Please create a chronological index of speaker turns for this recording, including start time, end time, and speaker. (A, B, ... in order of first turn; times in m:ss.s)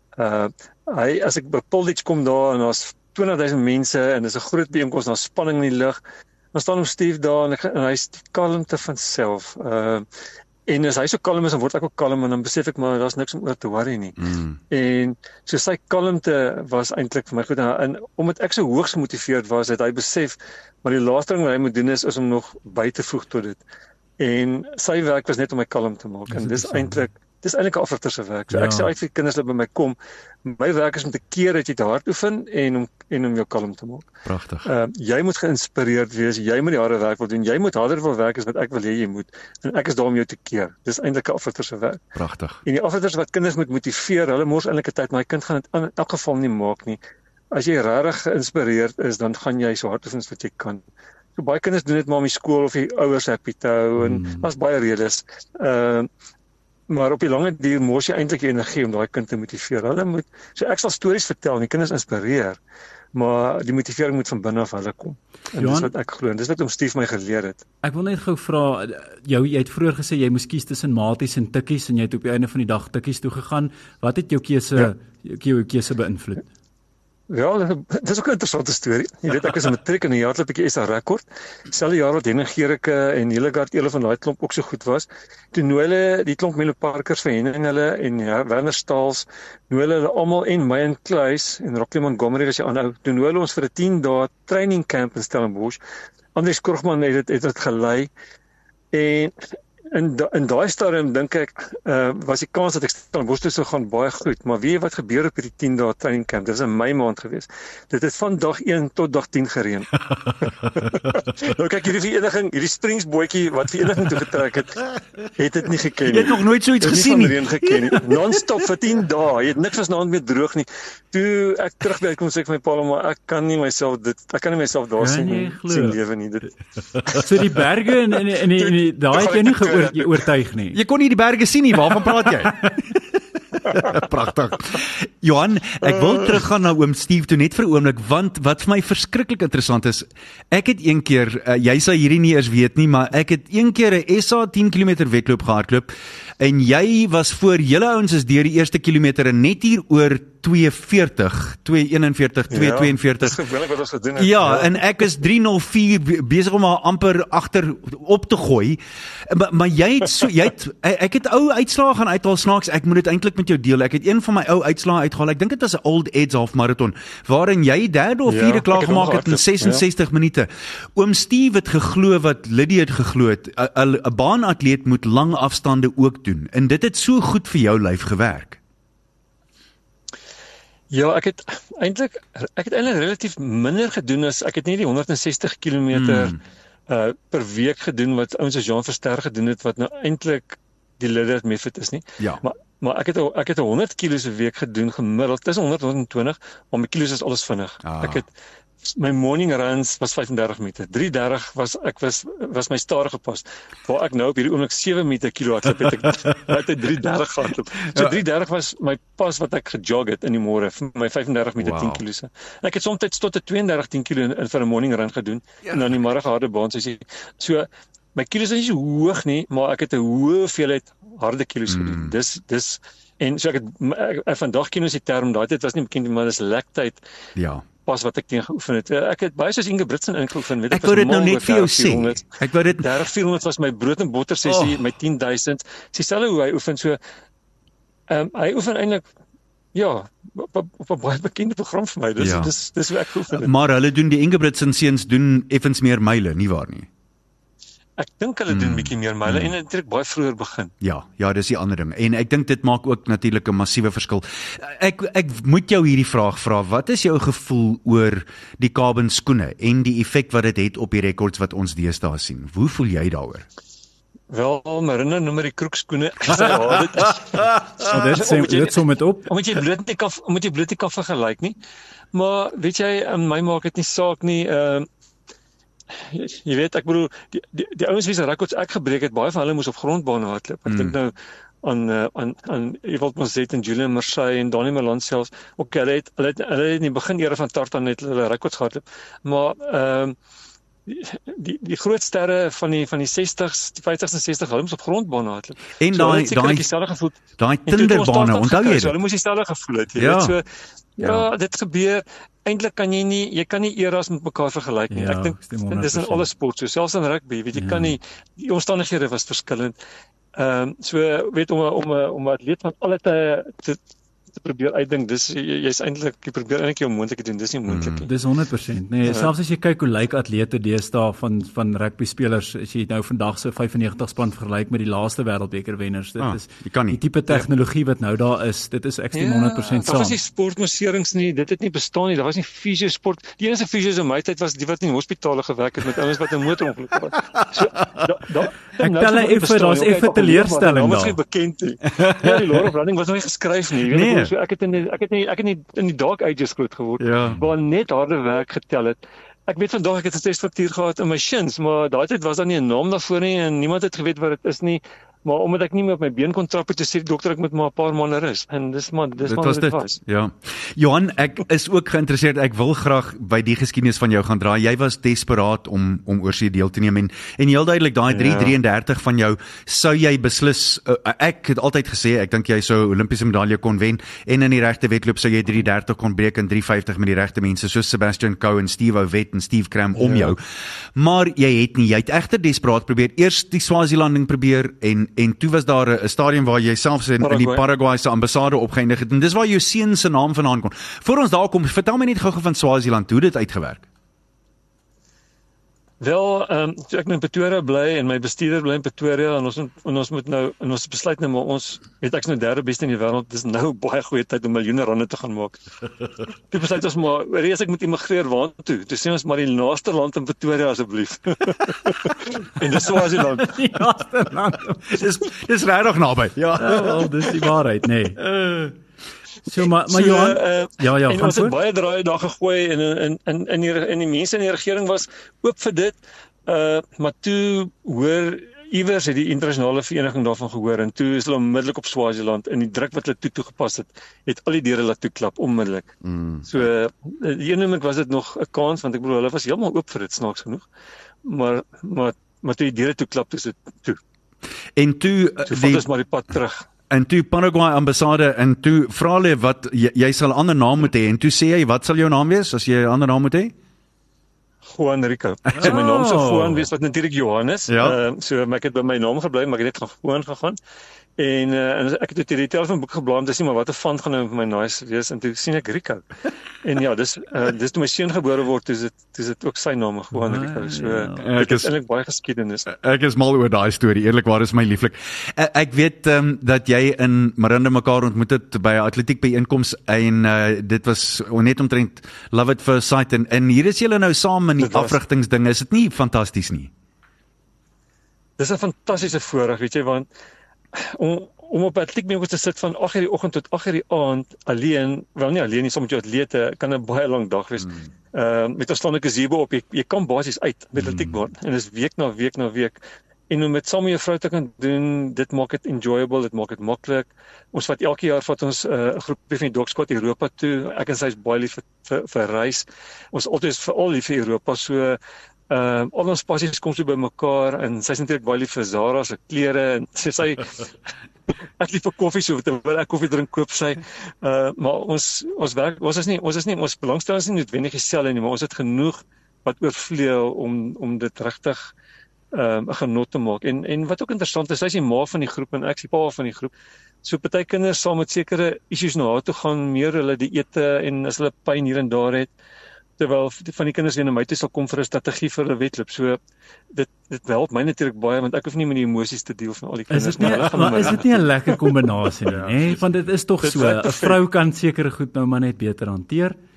0:00.2-0:06.0 A
0:06.5-0:10.0 A
0:10.7-0:23.6 A
0:14.2-0:14.6 B
0:24.2-0:34.1 A
0:26.3-0:27.0 C
0:28.5-0:28.9 C
0:34.2-0:34.7 B
0:34.6-0:42.0 A
0:42.1-0:42.6 B
0:42.6-0:47.0 A
0:47.5-0:50.8 A
0:51.4-0:56.1 A
0:54.0-0:54.5 C
0:56.9-1:02.6 A
1:03.1-1:07.6 A
1:05.6-1:05.9 C
1:07.8-1:16.4 C
1:17.3-1:35.8 A
1:36.4-1:38.1 A
1:38.9-1:49.9 A
1:50.4-1:54.8 A
1:55.4-2:06.5 A
1:56.1-1:58.5 B
2:05.0-2:06.0 C
2:07.1-2:10.8 C
2:08.5-2:10.2 A
2:10.7-2:12.7 B
2:13.6-2:33.4 B
2:15.8-2:16.4 A
2:32.5-2:34.8 A
2:34.2-2:58.6 B
2:48.2-2:49.8 A
3:00.9-3:18.3 A
3:05.9-3:06.4 B
3:17.8-3:18.2 B
3:18.8-3:47.0 A
3:27.9-3:28.2 B
3:31.6-3:32.0 B
3:41.7-3:42.2 B
3:47.4-3:47.6 B
3:47.9-3:57.0 A
3:50.7-3:52.9 B
3:54.4-3:54.8 B
3:58.1-3:59.0 A
3:59.7-4:03.5 A
4:02.2-4:02.5 B
4:03.3-4:06.9 B
4:08.0-4:10.7 A
4:08.5-4:09.5 B
4:10.8-4:23.4 B
4:24.3-4:31.6 A
4:27.8-4:29.3 C
4:32.1-4:34.9 A
4:35.9-4:50.2 A
4:40.7-4:41.0 B
4:50.9-5:00.4 A
4:55.8-4:56.7 B
4:57.4-4:59.0 B
5:00.0-5:00.4 B
5:01.0-5:09.8 A
5:01.0-5:01.3 B
5:04.9-5:06.2 C
5:07.5-5:08.0 C
5:10.4-5:13.8 A
5:14.3-5:18.1 A
5:17.7-5:18.1 B
5:18.0-5:30.2 C
5:19.0-5:19.3 A
5:26.2-5:27.5 B
5:29.1-6:00.0 A
5:37.4-5:38.0 B
5:38.8-5:41.2 C
5:42.0-5:42.6 B
5:43.9-5:44.3 B
5:47.0-5:47.4 B
5:59.2-6:20.4 B
6:08.1-6:08.6 A
6:20.9-6:33.8 B
6:27.2-6:27.6 A
6:36.0-6:45.6 A
6:46.5-6:53.6 A
6:53.4-6:55.0 C
6:54.9-6:57.4 B
6:56.6-6:58.2 C
6:58.2-6:58.7 B
6:59.5-7:01.5 C
6:59.9-7:15.9 A
7:16.0-7:16.5 B
7:16.4-7:20.6 A
7:21.2-7:24.0 A
7:24.8-7:25.9 B
7:25.5-7:26.6 A
7:26.9-7:33.5 B
7:34.7-7:40.6 A
7:35.5-7:36.6 C
7:37.7-7:38.0 B
7:41.2-7:52.7 A
7:50.1-7:51.3 C
7:51.2-7:51.7 B
7:52.7-8:06.7 B
8:04.6-8:05.0 A
8:08.4-8:10.1 A
8:10.7-8:35.0 A
8:20.8-8:21.1 B
8:35.5-8:40.6 A
8:41.6-8:51.7 A
8:52.3-8:56.5 A
8:57.0-9:02.3 A
9:03.0-9:06.2 A
9:06.7-9:11.6 A
9:09.9-9:16.4 C
9:12.3-9:12.6 B
9:13.4-9:14.2 A